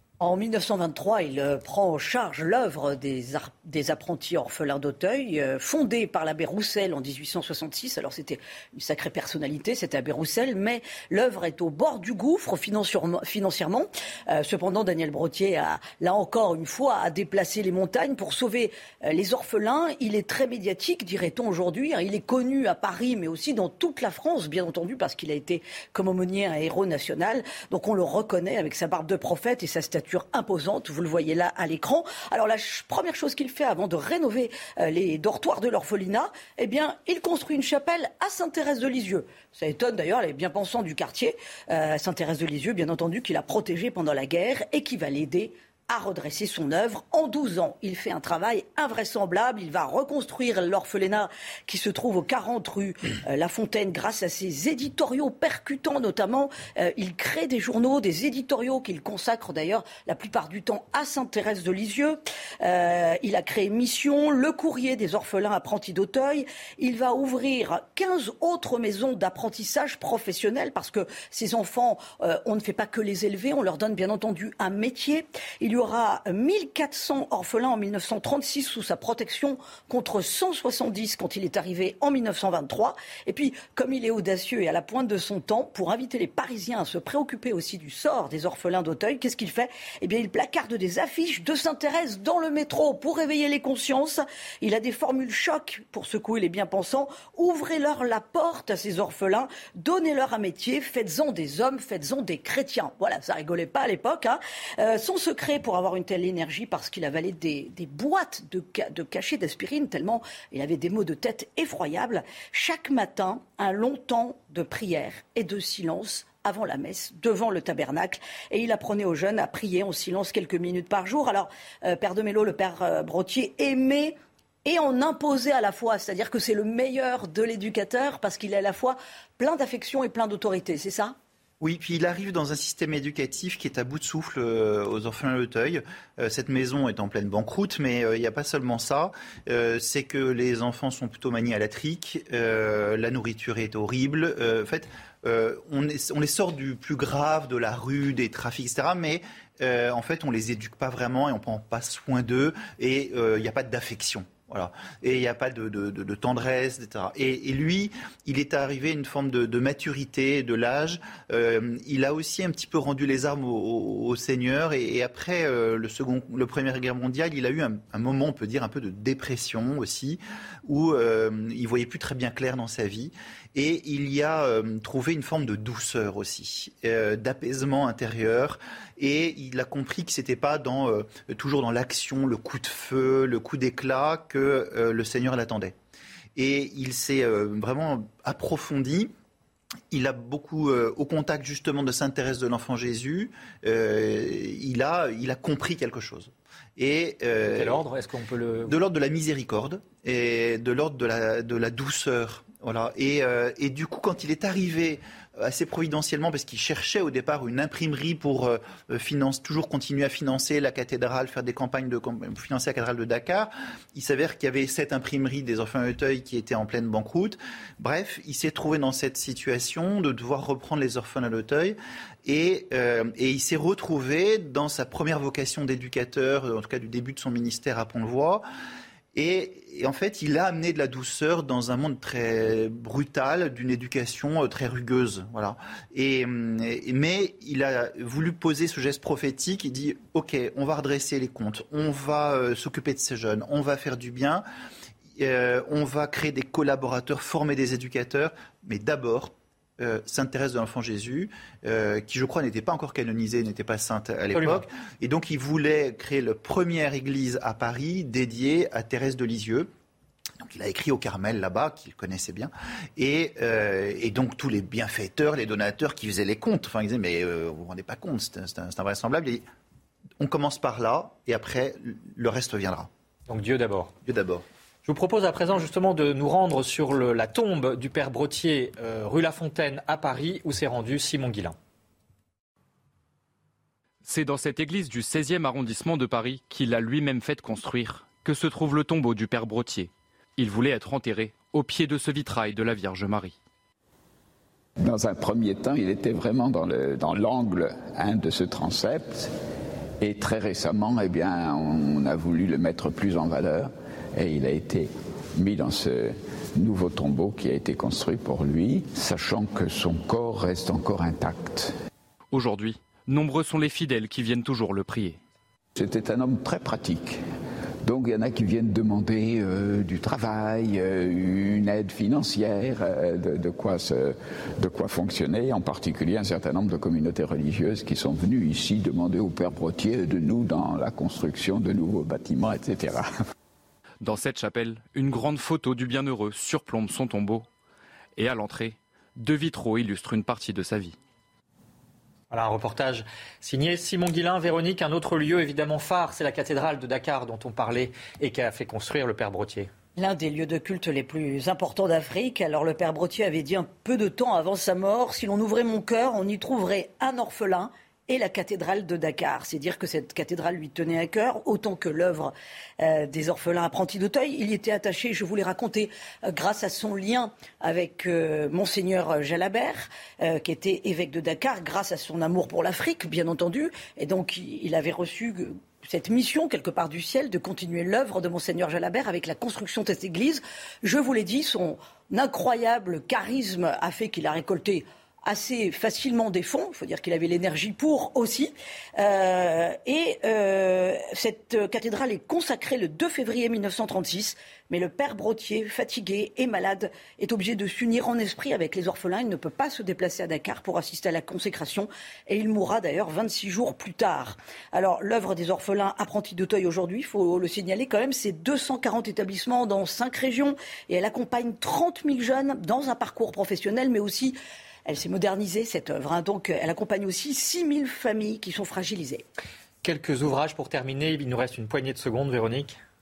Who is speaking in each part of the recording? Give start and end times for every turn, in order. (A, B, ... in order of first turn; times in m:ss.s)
0:00.2-2:11.1 A
2:11.6-3:05.7 B
3:06.4-3:09.1 B
3:09.9-3:17.8 B
3:17.5-3:18.7 C
3:18.6-3:48.4 B
3:49.1-4:04.4 B
4:05.2-4:19.7 B
4:14.3-4:14.6 C
4:20.4-4:29.4 B
4:30.2-4:32.9 B
4:33.3-4:33.9 C
4:34.0-4:34.4 B
4:34.8-4:41.6 C
4:44.0-4:53.3 D
4:54.8-4:59.3 E
5:00.0-5:11.7 E
5:12.3-5:15.2 D
5:15.7-5:17.2 E
5:17.8-5:33.1 E
5:34.0-5:37.4 D
5:38.2-5:41.0 D
5:42.3-5:49.7 C
5:50.0-6:59.2 A
6:59.8-7:02.8 C